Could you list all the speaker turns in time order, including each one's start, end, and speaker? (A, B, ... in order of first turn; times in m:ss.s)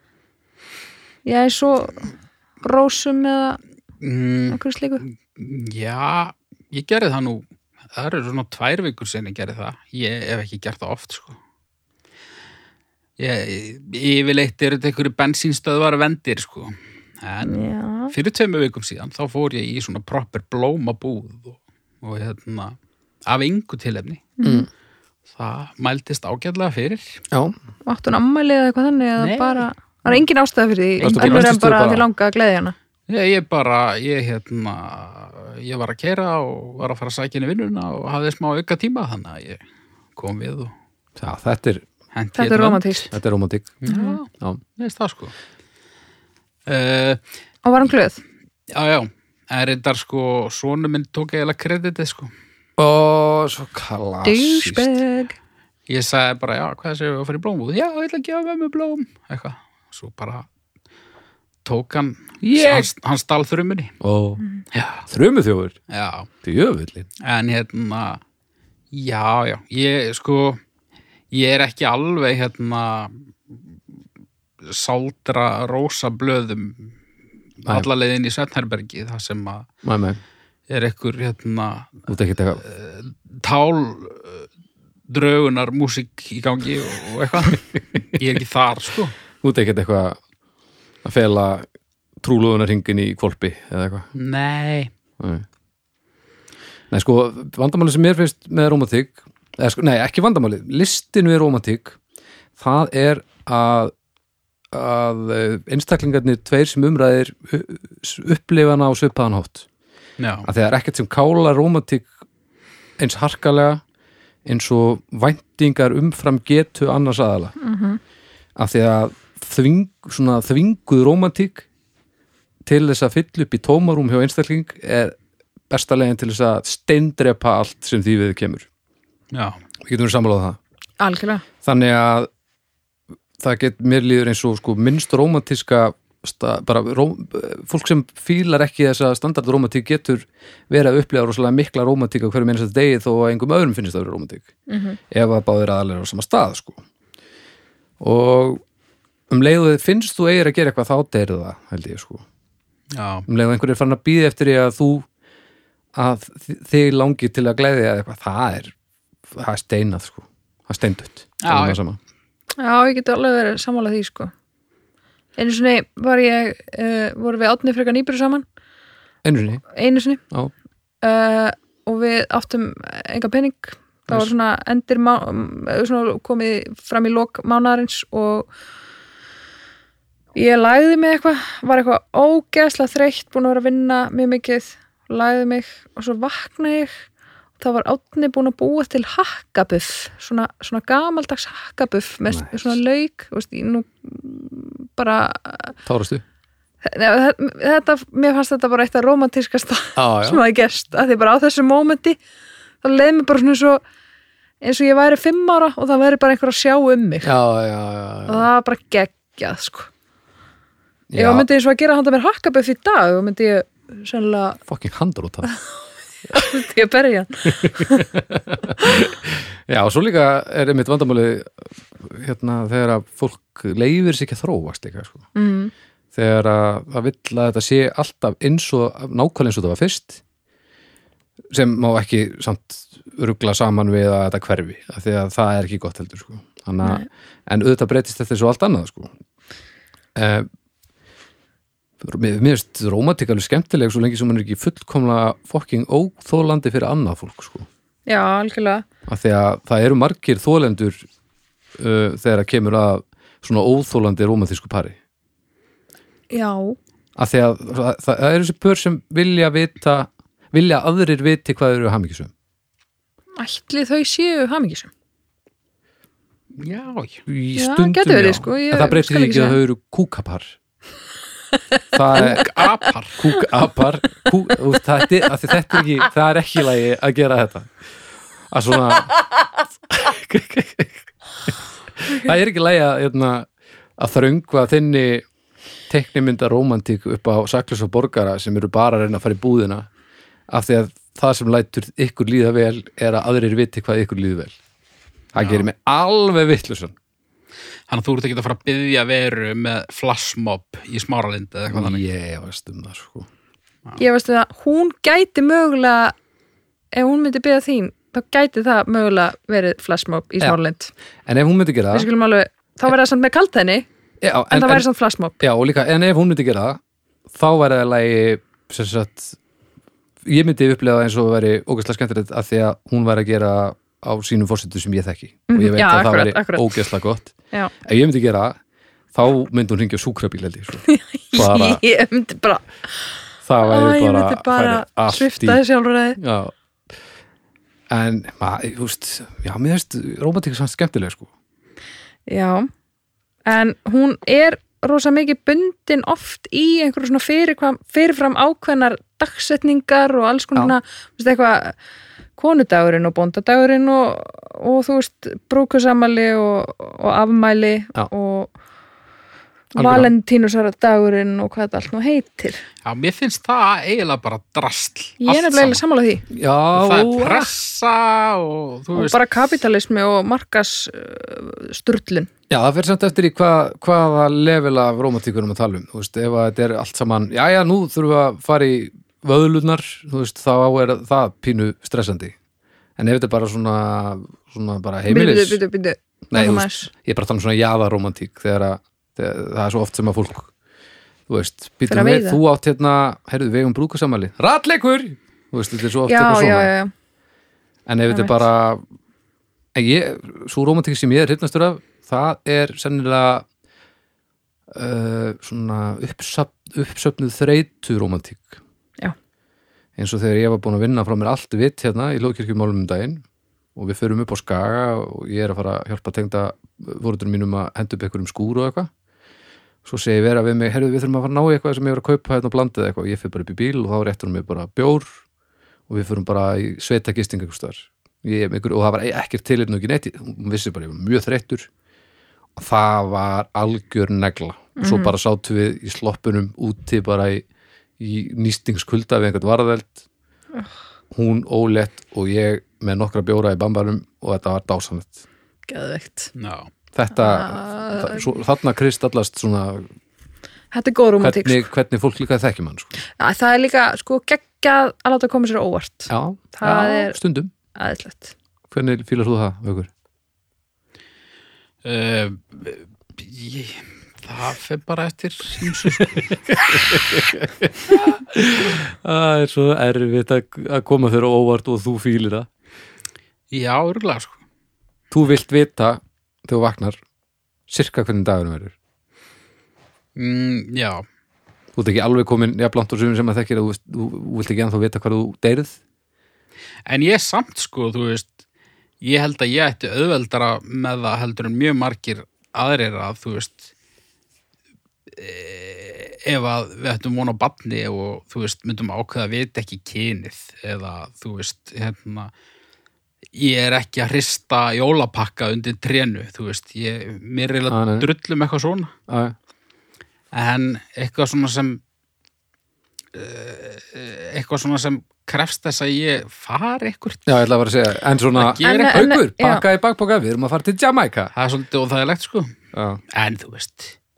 0:01.2-0:02.1 A
0:02.6-0:03.6 A
0:04.0-0:11.4 B
0:04.5-0:05.0 A
0:13.2-0:24.3 B
0:17.4-0:18.1 A
0:24.4-0:24.7 A
0:24.4-0:24.7 C
0:25.3-0:27.2 B
0:27.3-0:27.6 C
0:27.8-0:32.7 A
0:29.2-0:29.6 B
0:31.0-0:32.0 C
0:31.2-0:31.5 B
0:33.1-0:39.6 B
0:40.2-0:40.7 B
0:41.2-0:41.8 C
0:42.1-0:43.1 B
0:42.4-0:43.1 A
0:43.1-0:43.8 C
0:43.8-0:45.3 B
0:43.9-0:44.2 A
0:46.7-0:47.2 B
0:47.6-0:48.2 A
0:48.7-0:52.3 B
0:52.8-0:54.9 C
0:54.2-0:55.3 A
0:55.9-1:00.4 B
1:01.6-1:03.9 B
1:02.4-1:02.9 C
1:04.0-1:04.4 C
1:04.7-1:05.0 B
1:05.1-1:05.8 C
1:05.9-1:06.3 B
1:06.4-1:07.1 C
1:07.2-1:08.2 B
1:08.9-1:10.6 B
1:11.3-1:13.2 B
1:14.6-1:16.9 B
1:17.6-1:19.7 B
1:19.8-1:20.2 C
1:20.7-1:22.1 B
1:22.1-1:22.6 C
1:22.6-1:24.4 B
1:25.1-1:29.1 B
1:29.4-1:30.2 C
1:31.0-1:31.6 C
1:32.2-1:34.1 C
1:34.1-1:34.9 B
1:35.2-1:35.4 C
1:36.9-1:42.0 C
1:42.6-1:43.9 C
1:44.7-1:49.7 C
1:50.2-1:50.5 B
1:50.4-1:52.1 C
1:53.0-1:53.8 C
1:54.4-1:57.5 C
1:57.6-1:58.0 A
1:58.6-2:01.6 C
2:02.6-2:05.1 C
2:05.7-2:08.6 C
2:09.3-2:09.6 B
2:09.8-2:10.6 C
2:11.0-2:11.4 A
2:11.6-2:12.3 C
2:13.4-2:24.5 C
2:24.7-2:25.0 A
2:25.1-2:26.8 C
2:28.0-2:28.6 C
2:29.3-2:32.2 C
2:32.9-2:33.2 B
2:33.3-2:35.0 C
2:35.9-2:38.7 C
2:39.3-2:42.0 C
2:41.4-2:41.8 B
2:42.6-2:44.3 A
2:45.4-2:48.4 A
2:49.2-2:49.6 C
2:49.7-2:50.2 A
2:51.0-2:58.5 A
3:00.3-3:06.9 A
3:07.6-3:15.7 A
3:12.3-3:12.7 C
3:15.8-3:16.2 C
3:16.8-3:22.2 A
3:20.0-3:20.4 C
3:22.8-3:23.8 A
3:24.6-3:27.3 A
3:27.2-3:28.5 C
3:28.2-3:29.9 A
3:31.1-3:31.5 C
3:31.2-3:34.6 A
3:34.7-3:35.5 C
3:36.3-3:38.1 A
3:37.5-3:45.2 C
3:45.3-3:45.7 A
3:46.1-3:50.2 C
3:51.5-3:59.1 C
4:00.1-4:00.5 C
4:02.0-4:07.7 C
4:08.1-4:08.8 A
4:09.1-4:11.0 C
4:11.8-4:15.0 C
4:16.3-4:16.8 A
4:17.2-4:22.3 C
4:23.4-4:24.9 A
4:26.6-4:27.2 B
4:27.3-4:30.6 C
4:27.6-4:29.6 A
4:31.9-4:32.4 C
4:32.2-4:32.4 A
4:32.2-4:33.2 B
4:33.2-4:37.7 C
4:38.5-4:39.1 C
4:39.9-4:45.2 C
4:45.9-4:49.9 C
4:50.5-4:54.5 C
4:55.3-4:56.9 C
4:55.4-4:55.6 B
4:57.9-5:02.0 B
5:01.7-5:03.3 C
5:04.0-5:06.1 A
5:06.9-5:10.9 A
5:11.2-5:12.1 C
5:11.9-5:13.8 A
5:14.2-5:14.9 C
5:14.5-5:15.4 A
5:15.4-5:16.8 C
5:17.3-5:19.4 C
5:20.2-5:28.6 C
5:25.5-5:26.8 A
5:29.1-5:30.8 C
5:30.8-5:36.2 A
5:31.3-5:31.8 C
5:33.4-5:35.6 C
5:36.2-5:36.5 C
5:37.9-5:41.3 C
5:42.3-5:42.7 A
5:43.4-5:51.8 A
5:52.4-5:58.5 A
5:59.7-6:02.6 A
5:59.8-6:00.1 C
6:02.8-6:05.8 B
6:05.2-6:06.2 A
6:06.3-6:07.5 C
6:06.7-6:09.2 B
6:08.9-6:12.3 A
6:12.5-6:22.3 C
6:23.0-6:25.6 C
6:25.1-6:26.9 A
6:26.3-6:30.5 C
6:31.3-6:36.7 C
6:31.9-6:32.4 A
6:36.1-6:36.9 A
6:37.8-6:38.8 C
6:38.1-6:38.4 A
6:39.7-6:43.4 C
6:44.7-6:48.6 C
6:50.0-6:53.2 C
6:53.8-6:58.9 C
6:59.8-7:05.1 C
7:05.9-7:11.7 C
7:12.6-7:17.4 C
7:14.8-7:15.1 A
7:18.0-7:20.0 C
7:21.1-7:25.2 C
7:25.7-7:26.3 A
7:26.4-7:26.7 B
7:26.9-7:29.9 C
7:27.2-7:28.3 A
7:30.7-7:31.6 A
7:31.2-7:32.9 C
7:33.2-7:37.2 A
7:36.1-7:37.5 C
7:37.7-7:38.3 A
7:38.7-7:39.9 C
7:41.8-7:46.4 B
7:46.0-7:52.5 C
7:53.5-7:54.4 B
7:55.1-7:57.0 C
7:57.7-7:58.7 C
8:00.2-8:01.0 B
8:01.7-8:05.8 C
8:06.9-8:08.3 B
8:09.0-8:13.7 B
8:15.1-8:22.3 B
8:23.3-8:28.9 B
8:27.7-8:28.1 C
8:29.1-8:29.3 C
8:30.3-8:31.8 B
8:33.1-8:37.3 B
8:37.2-8:41.3 C
8:38.4-8:39.0 B
8:38.6-8:39.6 A
8:41.3-8:42.5 B
8:42.7-8:43.0 C
8:43.1-8:44.0 B